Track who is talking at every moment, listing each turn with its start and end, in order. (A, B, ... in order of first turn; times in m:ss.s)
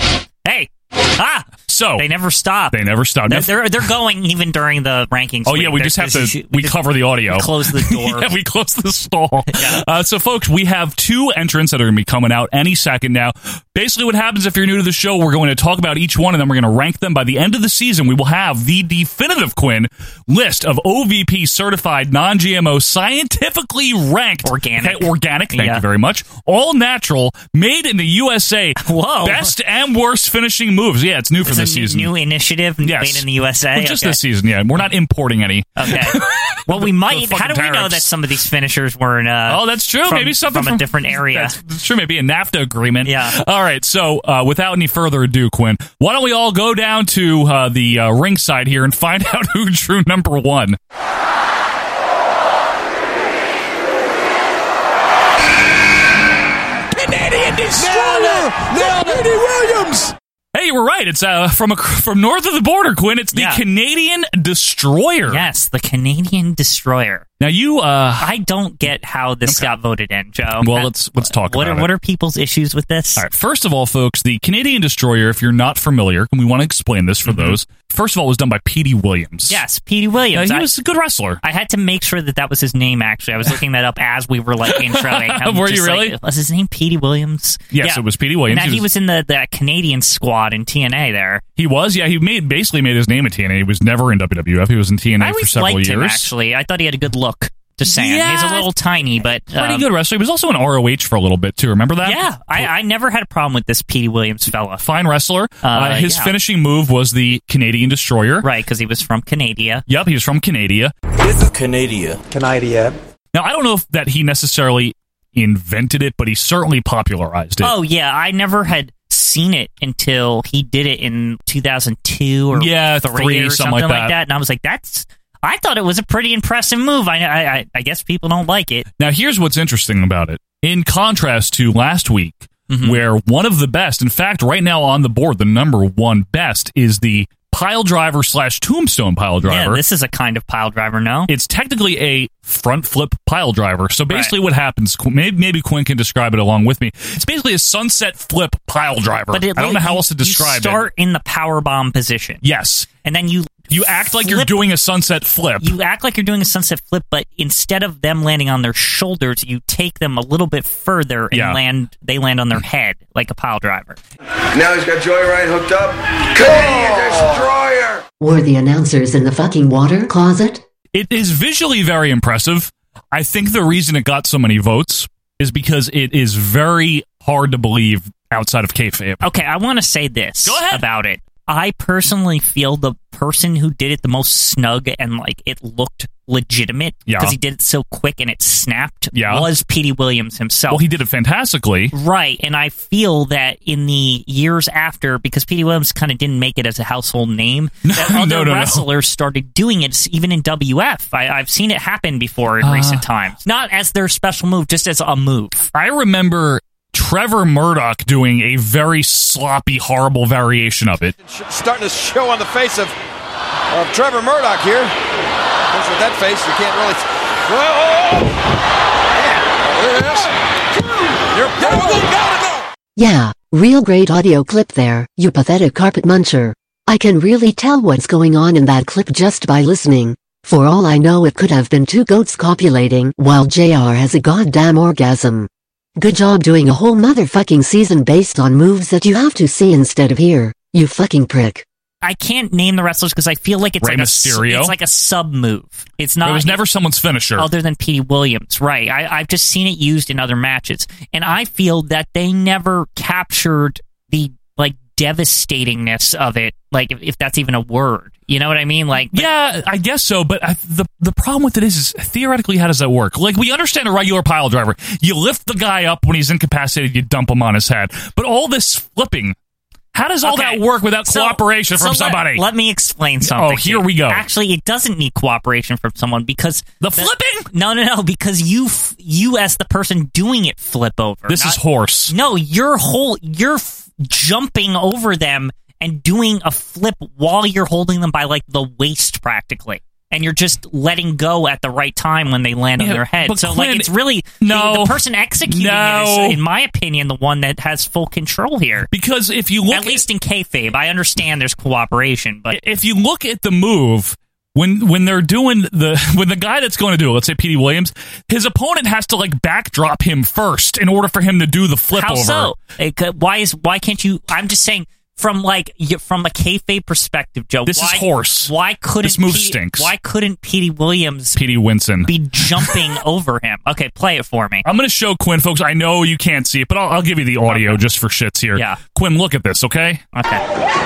0:00.4-0:08.3 A
0:01.7-0:02.0 B
0:02.7-0:03.9 B
0:05.4-0:32.1 B
0:09.5-0:09.8 A
0:24.4-0:25.8 A
0:28.8-0:29.5 A
0:31.4-0:34.2 A
0:32.8-0:38.1 B
0:35.8-0:41.6 A
0:39.5-0:50.8 B
0:43.0-0:43.3 A
0:57.1-1:00.0 C
1:00.5-1:05.4 B
1:03.3-1:03.6 A
1:05.3-1:07.3 A
1:07.4-1:08.3 B
1:08.2-1:13.2 A
1:09.4-1:09.7 B
1:10.6-1:11.9 B
1:13.2-1:19.6 B
1:17.2-1:17.6 A
1:19.5-1:20.7 A
1:20.3-1:21.4 B
1:21.4-1:31.4 A
1:24.6-1:26.1 B
1:27.7-1:28.8 B
1:31.6-1:36.3 B
1:35.2-1:39.8 A
1:37.8-1:38.7 B
1:39.5-1:42.7 B
1:42.0-1:44.8 A
1:44.8-1:48.5 B
1:45.6-1:46.3 A
1:48.4-1:49.8 A
1:49.9-1:50.9 B
1:53.3-1:57.7 B
1:57.6-2:08.8 A
2:02.5-2:04.1 B
2:09.0-2:19.8 B
2:12.7-2:13.0 A
2:19.4-2:21.3 A
2:21.3-2:30.9 B
2:29.3-2:32.4 A
2:32.4-2:32.9 B
2:33.0-2:34.6 A
2:33.7-2:35.7 B
2:35.6-2:44.0 A
2:41.3-2:41.6 B
2:44.5-2:48.0 D
2:48.2-2:50.6 E
2:50.9-2:59.2 B
2:59.2-3:10.8 A
3:00.4-3:00.8 B
3:07.1-3:07.3 B
3:09.1-3:09.5 B
3:10.7-3:11.9 B
3:11.9-3:25.7 A
3:17.9-3:18.8 B
3:22.6-3:23.0 B
3:25.7-3:31.1 B
3:31.2-3:32.9 F
3:33.7-3:34.9 F
3:35.7-3:38.4 F
3:39.2-3:40.3 F
3:41.3-3:42.2 F
3:43.0-4:01.6 E
4:02.0-4:06.6 A
4:03.8-4:04.7 B
4:06.2-4:07.5 B
4:07.4-4:19.3 A
4:19.1-4:29.4 B
4:29.9-4:32.4 B
4:30.2-4:41.6 A
4:33.2-4:34.2 B
4:36.8-4:37.5 B
4:41.3-4:42.1 B
4:42.1-4:58.9 A
4:52.8-4:56.4 B
4:58.9-5:00.0 B
4:59.7-5:02.6 A
5:02.5-5:12.6 B
5:11.9-5:21.4 A
5:17.7-5:19.9 B
5:21.3-5:22.8 B
5:22.0-5:24.7 A
5:24.6-5:30.0 B
5:27.5-5:27.8 A
5:30.1-5:30.4 A